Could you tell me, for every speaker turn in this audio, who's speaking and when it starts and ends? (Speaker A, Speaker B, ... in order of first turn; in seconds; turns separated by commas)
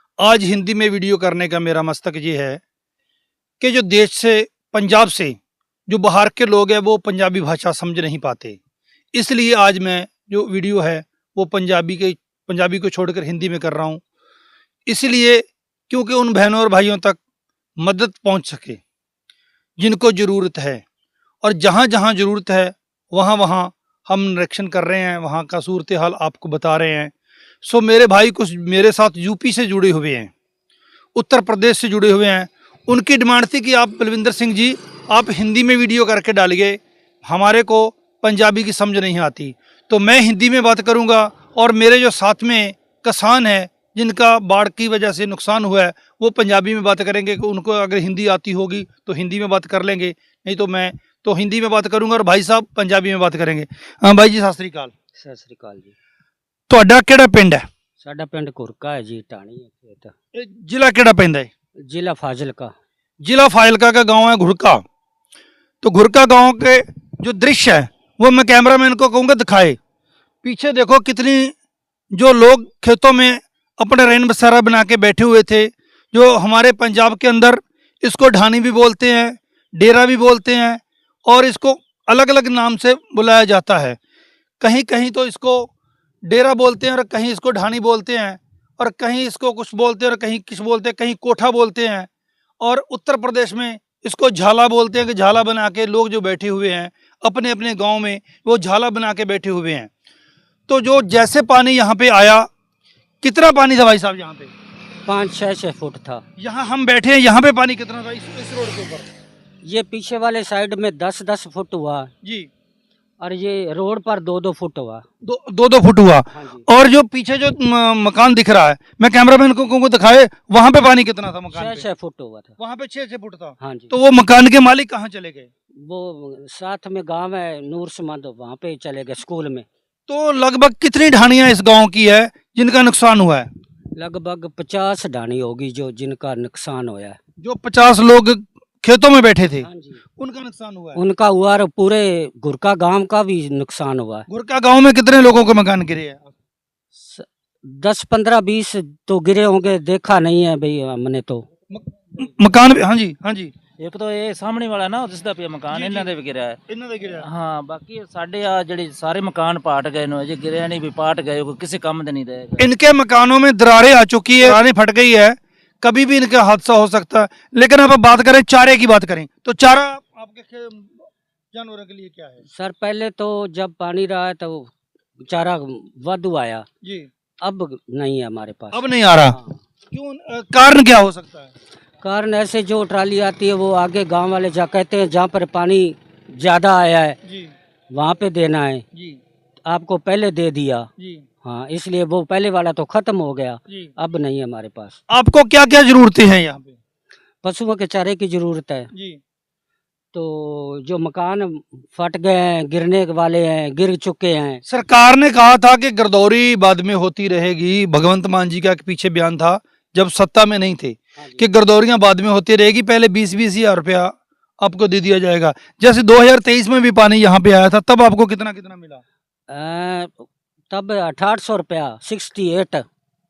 Speaker A: 0.2-2.6, Speaker A: 3.6-5.4, Speaker A: 5.9-8.6, Speaker A: 9.2-14.0, Speaker A: 14.9-17.2, Speaker A: 17.8-18.8, Speaker A: 19.8-20.8, Speaker A: 21.4-30.3, Speaker A: 31.1-54.9, Speaker B: 55.2-55.9, Speaker A: 56.7-57.6, Speaker B: 58.0-60.1, Speaker A: 60.3-61.5, Speaker B: 61.8-62.8, Speaker A: 63.2-64.8, Speaker A: 65.8-69.8, Speaker A: 70.4-71.5, Speaker A: 72.1-84.0, Speaker A: 84.6-85.7, Speaker A: 86.3-92.1, Speaker A: 92.6-99.9, Speaker A: 100.7-102.5, Speaker A: 103.2-104.5, Speaker B: 105.1-106.2, Speaker A: 106.4-109.1, Speaker B: 109.6-112.1, Speaker A: 112.2-112.5, Speaker B: 113.2-115.0, Speaker A: 115.2-121.9, Speaker B: 116.3-116.7, Speaker B: 121.5-122.5, Speaker A: 122.6-125.5, Speaker B: 123.6-123.9, Speaker B: 125.8-129.7, Speaker A: 130.1-133.5, Speaker B: 133.9-137.2, Speaker A: 137.4-139.7, Speaker B: 139.6-140.0, Speaker A: 140.2-141.0, Speaker B: 140.9-144.3, Speaker A: 144.3-146.3, Speaker B: 147.0-151.5, Speaker A: 151.7-153.5, Speaker C: 153.8-156.6, Speaker A: 155.7-156.1, Speaker A: 156.7-157.3, Speaker C: 157.2-162.7, Speaker A: 162.6-172.4, Speaker B: 172.6-174.7, Speaker B: 175.2-176.7, Speaker A: 176.8-177.1, Speaker B: 177.4-179.6, Speaker A: 178.7-179.4, Speaker A: 179.9-181.5, Speaker B: 182.0-187.2, Speaker A: 187.3-187.5, Speaker B: 187.9-188.8, Speaker A: 188.9-189.2, Speaker B: 189.7-190.9, Speaker A: 191.0-191.2, Speaker B: 191.4-195.0, Speaker A: 195.1-196.8, Speaker B: 197.4-198.9, Speaker A: 198.9-199.2, Speaker B: 200.1-204.6, Speaker A: 204.7-219.0, Speaker B: 219.5-222.9